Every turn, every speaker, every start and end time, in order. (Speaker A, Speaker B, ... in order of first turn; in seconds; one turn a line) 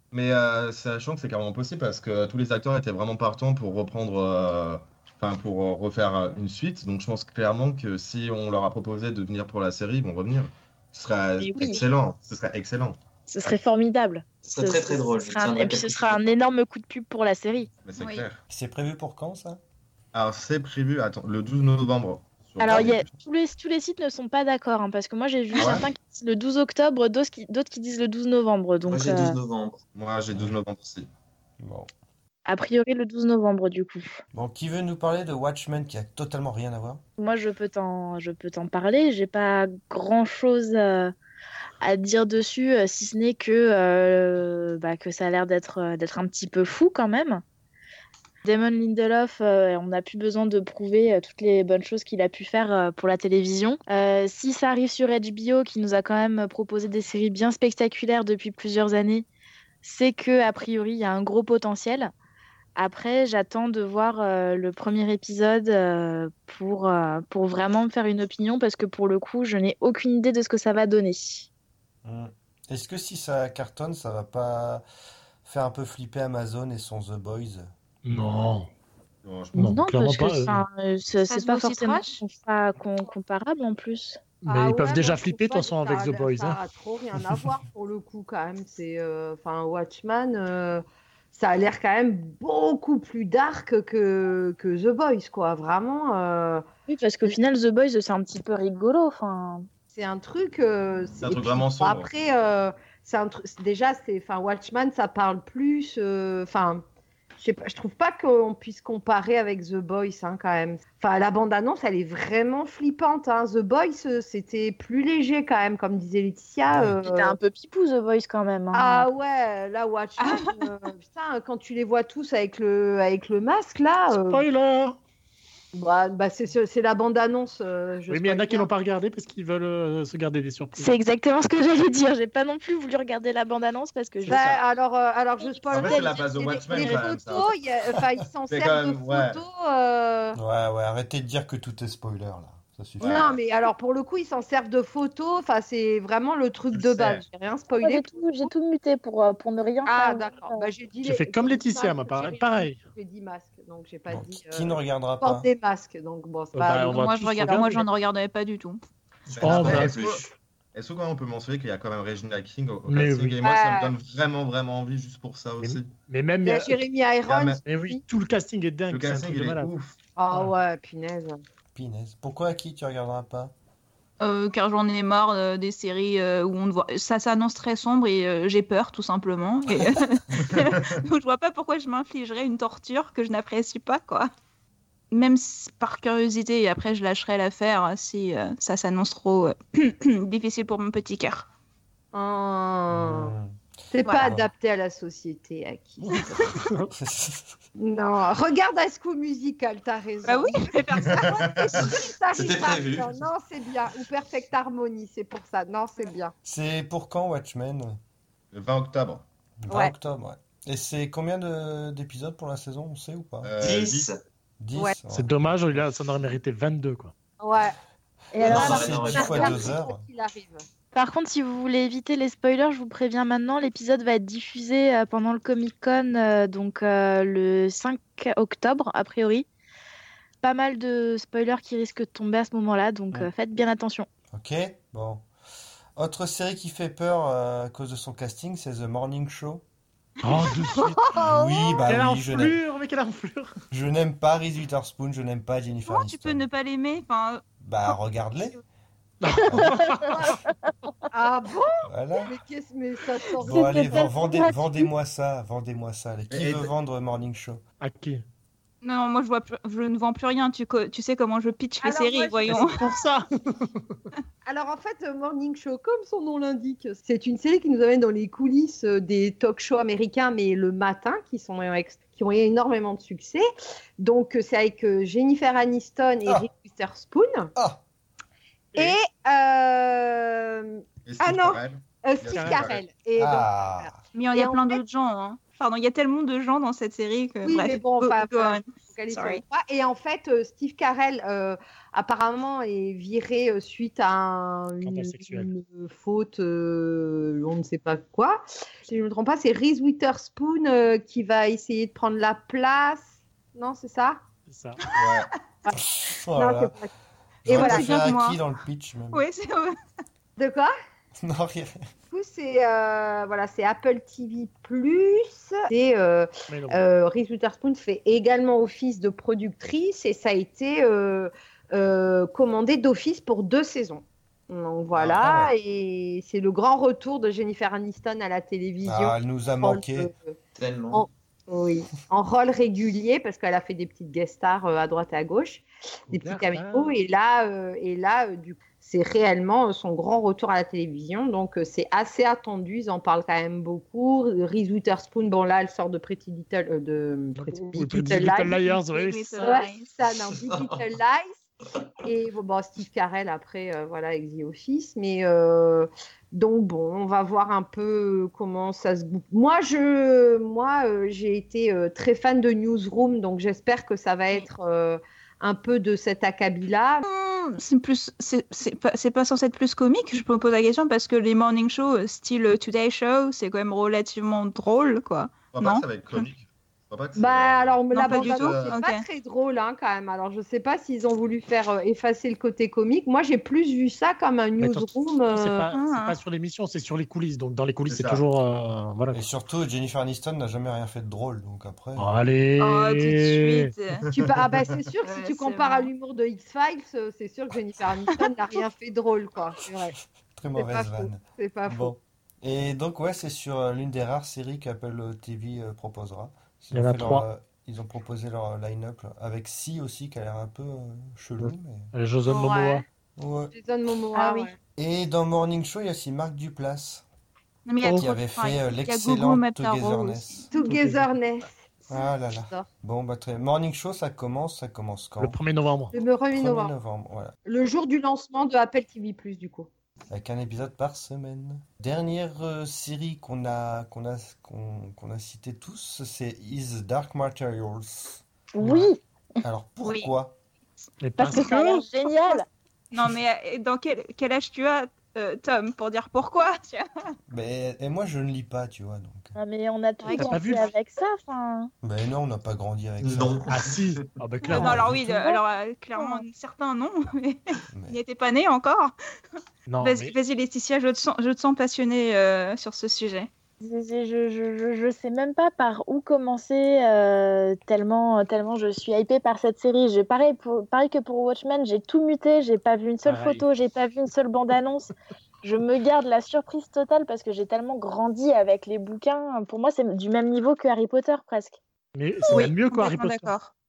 Speaker A: 0.1-13.0
Speaker B: 11.4-11.8
Speaker B: 13.3-17.7
Speaker C: 14.4-16.3
Speaker A: 17.8-18.4
Speaker D: 18.0-18.2
Speaker E: 18.5-19.6
Speaker A: 20.1-23.1
Speaker B: 22.6-29.4
Speaker A: 25.6-25.9
Speaker C: 28.9-29.8
Speaker A: 29.9-31.1
Speaker E: 31.6-31.9
Speaker B: 32.5-34.2
Speaker E: 34.3-37.0
Speaker B: 37.2-41.1
Speaker B: 41.8-47.4
Speaker B: 48.4-59.3
Speaker B: 59.8-62.1
Speaker B: 62.8-71.5
Speaker E: 72.0-74.8
Speaker E: 75.4-77.7
Speaker F: 78.0-78.7
Speaker A: 79.2-79.8
Speaker F: 79.5-80.6
Speaker B: 79.5-84.2
Speaker D: 81.3-82.2
Speaker F: 84.4-86.6
Speaker G: 84.5-96.7
Speaker B: 96.9-99.7
Speaker G: 99.9-106.8
Speaker A: 101.2-102.1
Speaker G: 107.4-117.3
Speaker B: 117.0-119.1
Speaker G: 118.7-124.4
Speaker D: 120.2-120.6
Speaker F: 124.1-125.0
Speaker G: 125.7-128.7
Speaker F: 128.1-130.9
Speaker B: 130.8-134.6
Speaker G: 134.3-140.4
Speaker B: 135.4-137.1
Speaker A: 135.7-137.6
Speaker A: 138.5-139.4
Speaker E: 140.3-143.3
Speaker A: 143.0-143.4
Speaker G: 143.0-148.5
Speaker A: 146.7-147.2
Speaker B: 147.8-150.7
Speaker G: 149.8-157.1
Speaker F: 151.0-152.8
Speaker E: 154.1-155.5
Speaker F: 156.6-157.8
Speaker D: 156.9-158.8
Speaker C: 159.3-160.3
Speaker A: 159.3-165.9
Speaker F: 159.4-160.3
Speaker F: 162.9-163.4
Speaker G: 163.4-163.9
Speaker F: 165.6-166.8
Speaker G: 166.4-168.0
Speaker A: 167.3-167.6
Speaker F: 167.7-169.7
Speaker A: 168.9-169.9
Speaker G: 170.2-171.4
Speaker E: 171.7-173.5
Speaker D: 174.2-184.3
Speaker A: 180.3-180.9
Speaker D: 185.1-191.5
Speaker G: 192.1-193.3
Speaker E: 192.9-193.6
Speaker G: 193.9-196.6
Speaker D: 194.0-194.3
Speaker E: 194.2-194.5
Speaker F: 196.0-196.9
Speaker E: 196.9-197.6
Speaker G: 197.8-206.3
Speaker D: 200.3-201.5
Speaker A: 201.0-201.8
Speaker C: 202.3-203.2
Speaker E: 206.4-208.0
Speaker A: 208.5-209.3
Speaker E: 209.6-213.5
Speaker G: 209.7-209.9
Speaker A: 213.4-214.1
Speaker C: 213.6-214.2
Speaker E: 214.6-215.3
Speaker F: 215.1-217.1
Speaker G: 217.4-217.8
Speaker B: 218.3-219.5
Speaker E: 218.4-220.0
Speaker G: 218.4-220.7
Speaker C: 218.4-219.6
Speaker B: 220.9-229.5
Speaker B: 230.4-234.1
Speaker E: 234.3-235.3
Speaker E: 236.0-239.6
Speaker F: 240.2-241.0
Speaker G: 241.0-241.8
Speaker E: 241.1-242.6
Speaker F: 241.9-243.5
Speaker E: 243.7-246.4
Speaker D: 245.9-248.6
Speaker E: 247.6-248.6
Speaker F: 249.2-250.3
Speaker E: 249.4-249.9
Speaker G: 251.1-254.0
Speaker E: 251.9-252.3
Speaker E: 253.4-257.6
Speaker B: 253.4-254.9
Speaker A: 256.3-256.7
Speaker F: 257.8-258.2
Speaker D: 258.8-262.8
Speaker G: 261.8-262.9
Speaker F: 262.5-264.0
Speaker G: 264.5-273.4
Speaker G: 274.0-277.5
Speaker E: 277.6-277.8
Speaker G: 278.8-284.8
Speaker A: 281.1-282.8
Speaker F: 282.3-282.8
Speaker E: 283.2-284.0
Speaker D: 284.1-289.4
Speaker G: 287.4-304.2
Speaker F: 294.8-295.5
Speaker F: 304.5-304.8
Speaker D: 304.8-305.1
Speaker A: 304.9-305.3
Speaker E: 305.7-306.8
Speaker G: 306.4-306.9
Speaker E: 307.4-309.2
Speaker G: 307.5-307.9
Speaker D: 307.5-308.4
Speaker D: 309.1-309.8
Speaker G: 310.4-310.7
Speaker E: 311.2-311.8
Speaker G: 312.1-330.3
Speaker F: 316.5-316.8
Speaker E: 325.2-325.5
Speaker E: 328.8-330.1
Speaker C: 330.6-331.1
Speaker G: 330.9-348.8
Speaker F: 336.1-337.0
Speaker F: 347.4-349.6
Speaker D: 348.9-349.9
Speaker G: 349.4-351.4
Speaker C: 350.3-350.9
Speaker G: 352.0-367.0
Speaker D: 367.0-376.3
Speaker A: 375.5-378.8
Speaker G: 377.2-385.7
Speaker D: 377.9-379.1
Speaker F: 384.6-389.2
Speaker D: 385.7-386.2
Speaker A: 387.9-388.2
Speaker E: 389.1-392.1
Speaker F: 392.0-393.7
Speaker D: 392.6-394.1
Speaker A: 394.1-394.6
Speaker G: 394.1-400.0
Speaker D: 395.1-395.9
Speaker E: 400.3-411.9
Speaker G: 400.6-401.9
Speaker F: 406.7-407.3
Speaker F: 411.4-412.8
Speaker G: 412.3-412.8
Speaker E: 413.2-413.5
Speaker G: 413.5-414.5
Speaker B: 414.1-414.5
Speaker E: 414.8-417.1
Speaker D: 417.7-420.2
Speaker F: 417.8-418.1
Speaker E: 417.9-420.5
Speaker G: 420.5-422.7
Speaker F: 420.6-421.1
Speaker E: 421.9-425.4
Speaker F: 425.2-425.9
Speaker G: 425.9-426.7
Speaker E: 426.3-427.3
Speaker G: 427.4-429.7
Speaker E: 430.1-438.2
Speaker B: 438.6-439.0
Speaker F: 438.6-438.9
Speaker E: 439.4-440.4
Speaker D: 439.8-440.1
Speaker F: 441.0-441.8
Speaker B: 441.2-442.5
Speaker D: 442.0-447.1
Speaker E: 447.3-449.4
Speaker B: 449.4-451.7
Speaker D: 450.0-450.7
Speaker F: 450.2-450.7
Speaker E: 451.8-453.5
Speaker C: 453.0-454.0
Speaker F: 453.5-454.8
Speaker D: 454.5-458.9
Speaker B: 454.5-455.4
Speaker B: 455.9-456.2
Speaker E: 457.7-458.0
Speaker F: 459.7-460.1
Speaker D: 459.8-463.3
Speaker B: 463.6-474.9
Speaker F: 473.1-473.4
Speaker B: 475.4-481.6
Speaker F: 481.9-483.3
Speaker D: 482.3-483.5